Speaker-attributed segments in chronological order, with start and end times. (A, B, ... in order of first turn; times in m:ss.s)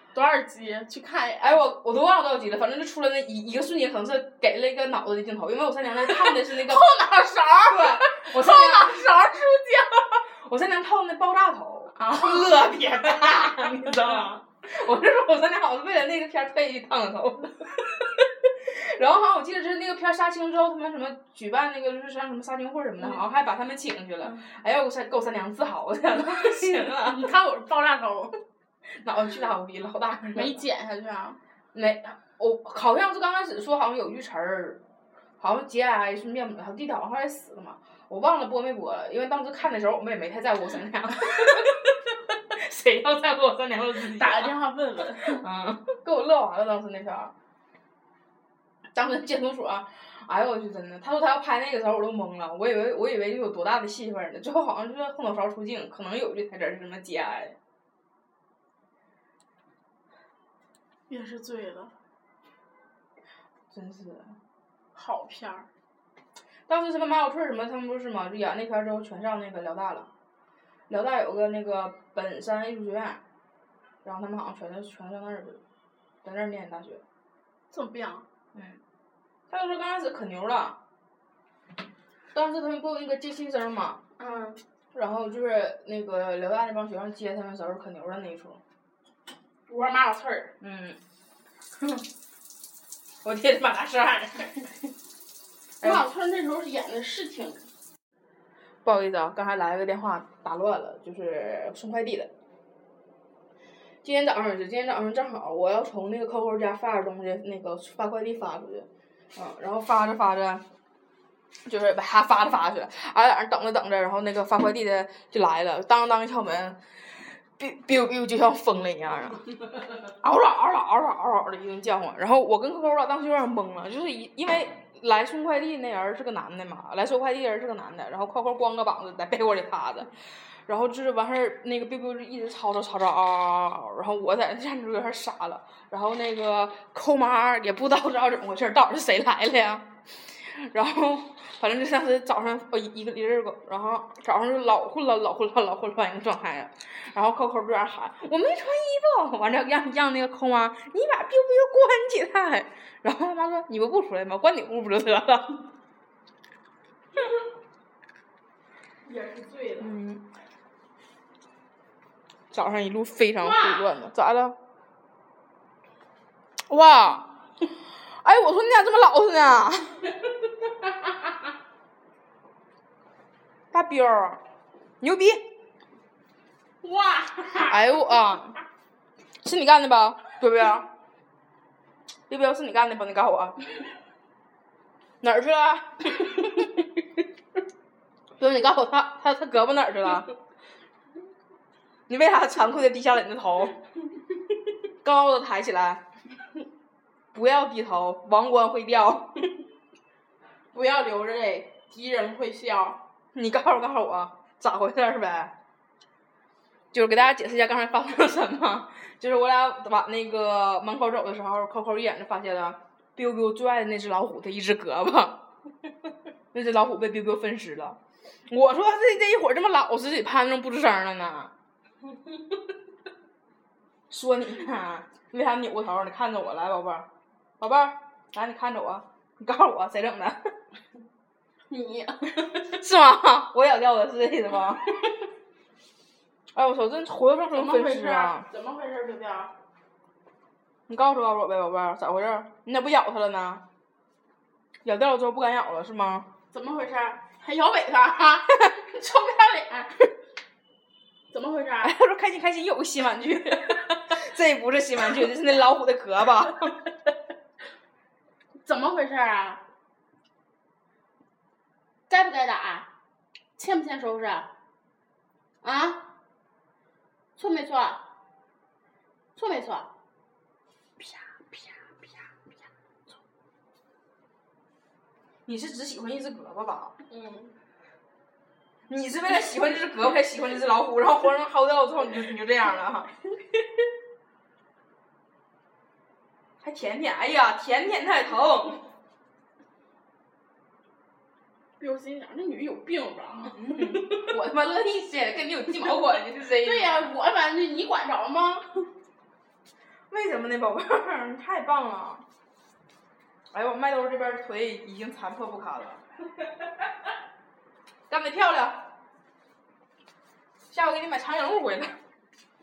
0:00.1-0:01.6 A
0:01.4-0:06.9 B
0:06.0-0:10.2 A
0:07.6-0:09.2 B
0:10.4-0:27.3 B
0:12.0-0:12.6 A
0:13.8-0:14.3 A
0:26.4-0:28.3 A
0:28.9-0:30.6 B
0:30.3-0:31.4 A
0:31.7-0:34.8 B
0:35.4-0:44.5 B
0:44.1-0:45.4 A
0:45.3-0:47.3 B
0:48.9-0:57.6 B
1:01.1-1:01.9 A
1:03.7-1:04.4 B
1:04.9-1:05.7 A
1:06.7-1:10.1 B
1:10.9-1:13.2 B
1:14.0-1:15.6 B
1:16.2-1:17.0 B
1:17.7-1:18.2 A
1:18.5-1:18.8 B
1:19.5-1:20.8 B
1:22.3-1:28.6 B
1:29.7-1:30.5 A
1:30.6-1:31.0 B
1:31.8-1:32.0 B
1:33.2-1:34.9 B
1:35.8-1:37.7 A
1:38.8-1:42.3 B
1:44.0-1:50.6 B
1:51.6-1:59.4 B
2:00.1-2:35.6 B
2:39.0-2:39.9 A
2:39.8-2:40.3 B
2:42.5-2:44.6 B
2:43.4-2:43.9 A
2:46.7-2:47.3 B
2:47.9-2:50.0 B
2:53.7-2:54.4 B
2:55.0-2:55.4 B
2:56.8-2:58.0 A
2:57.6-2:58.6 B
2:59.4-3:00.9 B
3:02.3-3:03.6 B
3:05.2-3:06.9 B
3:08.4-3:10.3 B
3:12.1-3:13.8 B
3:15.0-3:16.0 B
3:17.3-3:19.4 B
3:20.7-3:23.0 A
3:23.3-3:25.6 B
3:26.9-3:35.4 B
3:36.5-3:41.5 B
3:44.1-3:47.1 B
3:47.6-3:50.5 B
3:51.7-3:52.5 A
3:52.5-3:55.1 B
3:56.5-3:58.5 B
3:57.5-3:59.5 A
4:00.9-4:03.6 B
4:04.8-4:06.3 B
4:06.5-4:10.1 A
4:11.3-4:11.9 A
4:11.8-4:16.8 B
4:18.6-4:19.6 A
4:22.1-4:22.9 A
4:23.6-4:24.5 A
4:25.6-4:26.1 A
4:27.4-4:28.0 A
4:29.4-4:29.9 A
4:35.5-4:37.0 B
4:37.1-4:37.5 A
4:38.9-4:43.1 B
4:46.6-4:48.9 B
4:51.8-4:54.2 A
4:53.4-4:57.0 B
4:56.5-4:58.9 A
5:00.1-5:02.2 B
5:03.5-5:06.0 B
5:08.1-5:08.9 B
5:10.7-5:12.0 B